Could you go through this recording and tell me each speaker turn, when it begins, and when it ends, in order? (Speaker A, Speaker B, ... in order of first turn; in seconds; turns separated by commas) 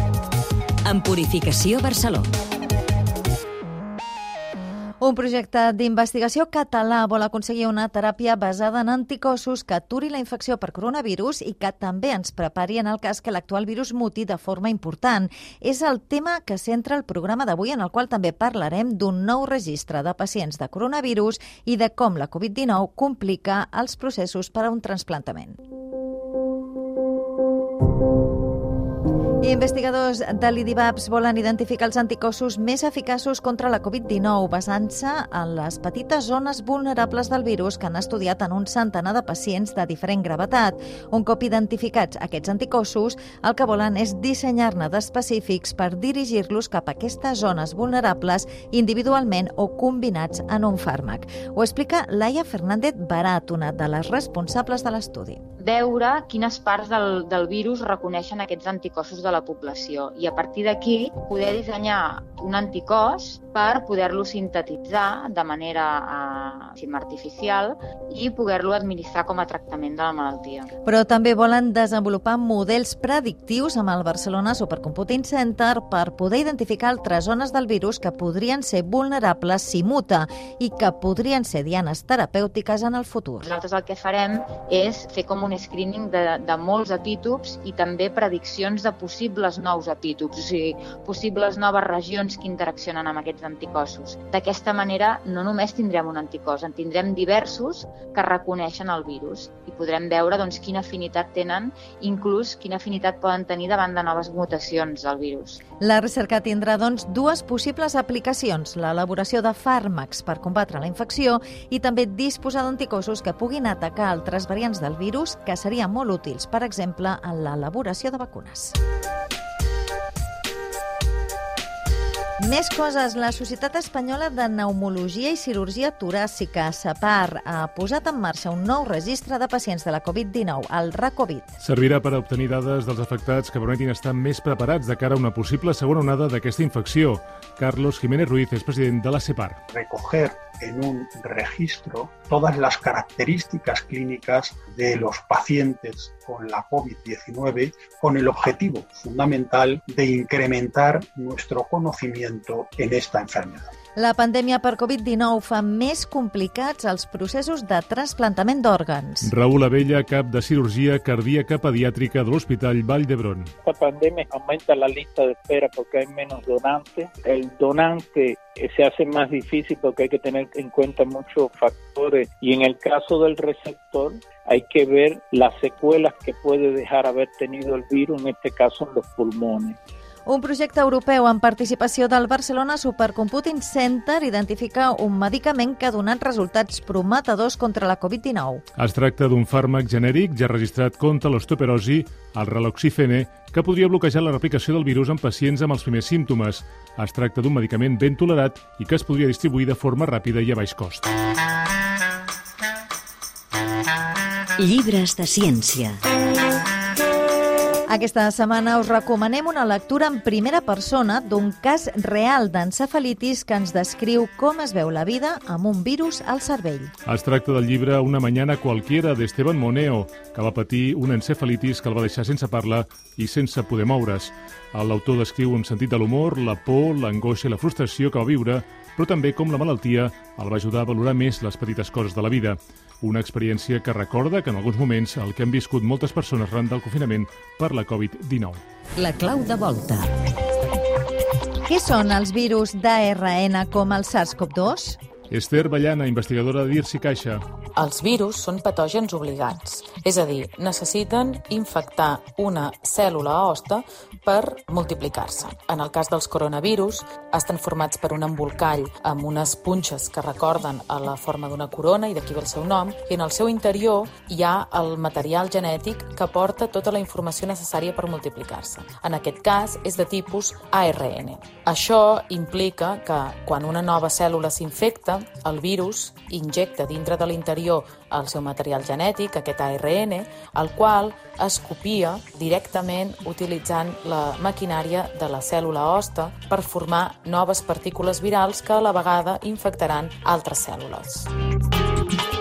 Speaker A: 0.8-2.3, Speaker B: 5.0-25.6, Speaker B: 29.4-55.4, Speaker C: 55.6-70.7, Speaker B: 70.8-83.5, Speaker C: 83.5-105.6, Speaker B: 105.8-118.8, Speaker B: 122.4-131.5, Speaker D: 131.6-139.6, Speaker E: 139.7-153.7, Speaker B: 154.0-159.3, Speaker D: 159.2-163.5, Speaker F: 163.6-179.8, Speaker B: 180.2-188.6, Speaker D: 188.8-201.1, Speaker A: 204.6-206.0, Speaker B: 207.9-216.9, Speaker D: 217.1-238.6, Speaker A: 239.0-240.1, Speaker B: 241.7-245.0, Speaker D: 245.3-247.4, Speaker G: 247.8-291.3